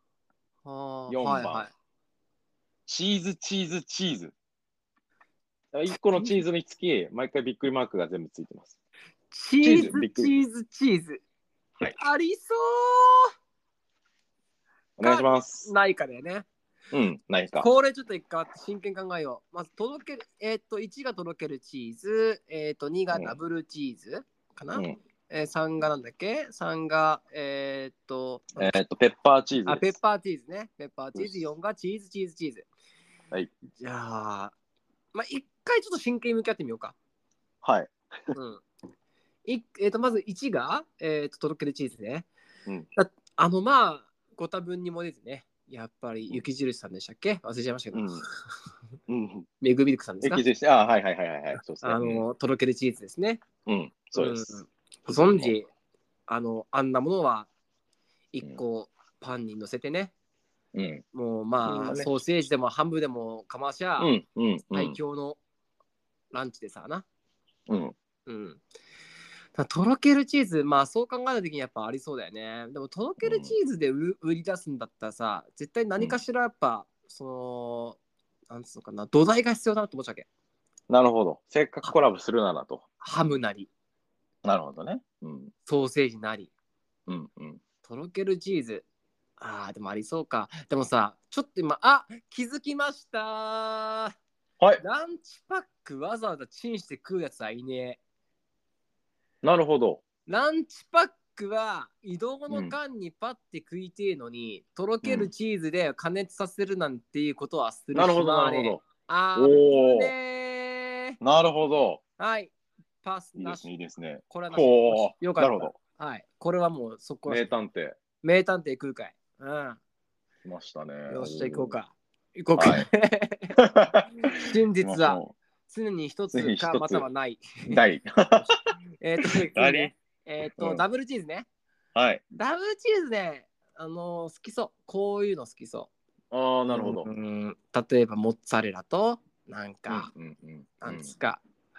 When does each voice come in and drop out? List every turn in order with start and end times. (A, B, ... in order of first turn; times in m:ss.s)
0:00.6-0:01.7 A
0:01.1-0:01.7 B
0:02.9-0:04.3 B
0:05.7-0:08.8 B
0:06.0-0:06.4 A
0:09.3-0:11.2 A
0:09.6-0:10.4 B
0:12.0-0:13.3 A
0:15.0-0:15.7 B
0:15.0-0:16.5 A
0:16.9-0:17.7 B
0:17.6-0:28.7 A
0:23.1-0:23.4 B
0:28.6-0:30.0 B
0:29.7-0:32.7 A
0:33.8-0:34.5 A
0:35.1-0:37.0 A
0:37.6-0:38.3 B
0:38.3-0:38.6 A
0:39.4-0:42.3 A
0:43.0-0:48.4 A
0:47.9-0:48.2 B
0:49.1-0:49.5 B
0:49.6-0:50.4 A
0:50.2-0:52.2 B
0:51.8-0:53.4 A
0:53.7-0:55.5 B
0:54.2-0:55.7 A
0:56.3-0:57.5 A
0:58.3-1:00.1 A
1:00.7-1:01.0 B
1:01.1-1:04.1 A
1:01.6-1:02.1 B
1:04.0-1:05.0 B
1:04.7-1:05.4 A
1:06.3-1:07.1 A
1:07.7-1:08.0 B
1:08.3-1:08.6 A
1:09.6-1:20.3 A
1:13.2-1:13.5 B
1:20.9-1:22.8 B
1:23.0-1:23.7 A
1:24.4-1:25.5 B
1:25.7-1:26.5 A
1:27.1-1:27.6 B
1:27.8-1:28.8 A
1:29.4-1:34.1 A
1:34.8-1:38.0 A
1:39.4-1:40.0 B
1:40.3-1:51.2 A
1:42.5-1:42.8 B
1:45.0-1:45.3 B
1:47.9-1:48.8 B
1:49.4-1:50.1 B
1:51.2-1:52.0 B
1:52.2-1:52.5 A
1:53.0-1:53.7 A
1:53.4-1:55.8 B
1:54.3-1:57.5 A
1:57.3-1:58.0 B
1:58.2-1:59.8 A
2:00.4-2:01.8 B
2:01.1-2:03.6 A
2:02.6-2:02.9 B
2:03.6-2:05.4 B
2:04.4-2:07.8 A
2:06.3-2:07.1 B
2:07.7-2:08.5 B
2:09.0-2:11.5 A
2:09.2-2:09.9 B
2:10.6-2:10.8 B
2:12.0-2:12.2 B
2:12.3-2:15.9 A
2:16.3-2:17.1 B
2:16.7-2:20.1 A
2:19.9-2:21.1 B
2:20.8-2:21.4 A